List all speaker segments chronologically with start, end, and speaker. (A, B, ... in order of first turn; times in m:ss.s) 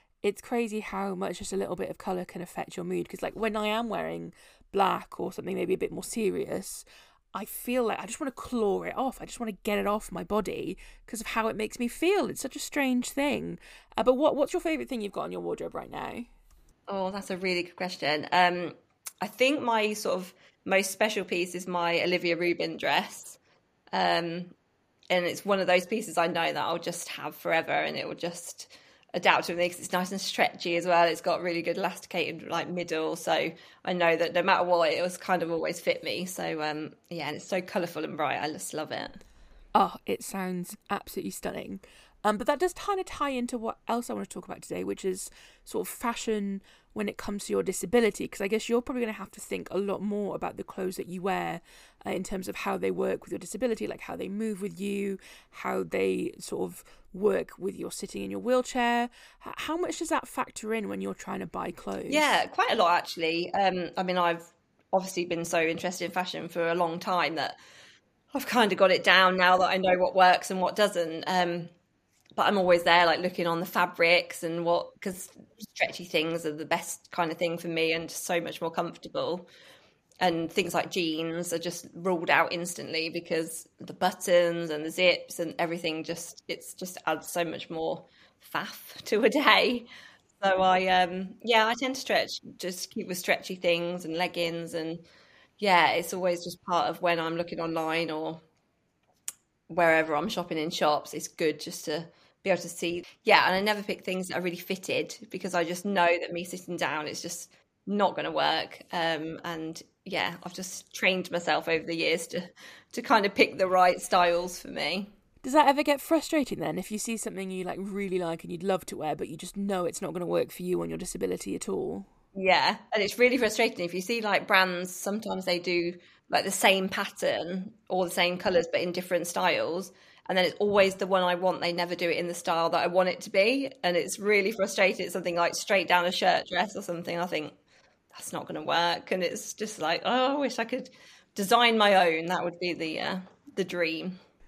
0:00.2-0:16.3 A
0:16.9-0:23.4 B
0:23.9-0:24.5 B
0:25.1-0:39.2 B
0:39.8-1:02.4 A
1:02.1-1:07.6 B
1:08.3-1:11.7 B
1:12.4-1:19.4 B
1:20.2-1:29.9 B
1:30.4-1:35.0 B
1:35.6-1:38.4 B
1:39.7-1:55.1 B
1:55.4-2:02.1 A
2:02.3-2:17.5 B
2:18.1-2:24.1 B